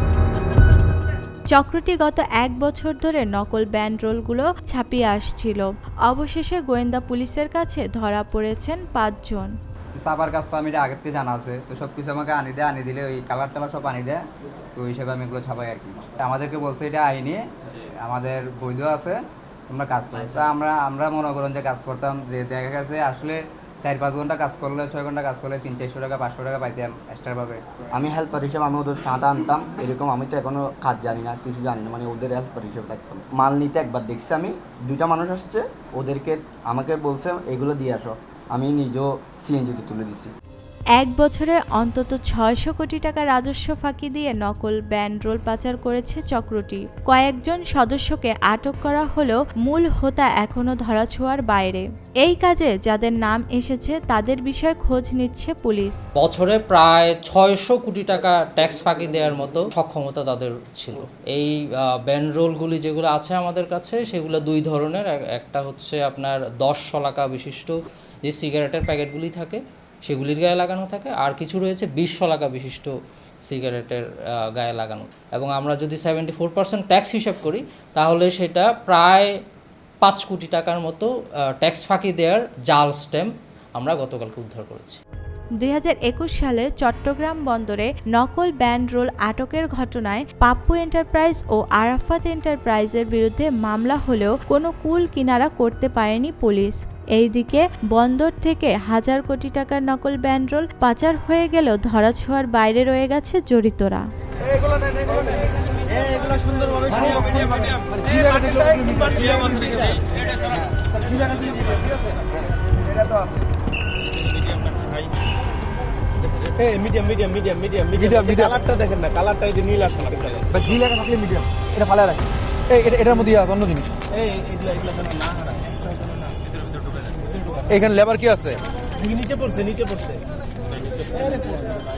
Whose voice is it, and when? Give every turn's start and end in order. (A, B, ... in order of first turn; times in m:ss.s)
0:01.5-0:09.5 A
0:09.9-0:14.2 B
0:14.8-0:17.4 B
0:18.0-0:27.6 B
0:28.0-0:40.3 C
0:41.0-0:56.0 A
0:56.2-1:12.9 D
1:13.5-1:19.3 D
1:20.0-1:21.1 D
1:21.6-1:25.0 D
1:25.6-1:44.0 A
1:45.9-1:47.9 E
1:48.0-1:49.7 F
1:48.6-1:50.1 E
1:51.1-1:51.4 F
1:52.8-1:53.3 B
1:56.6-2:00.5 E
1:58.0-1:58.6 F
2:00.5-2:03.9 F
2:04.1-2:05.8 E
2:07.7-2:08.6 F
2:09.0-2:10.2 E
2:10.8-2:11.7 E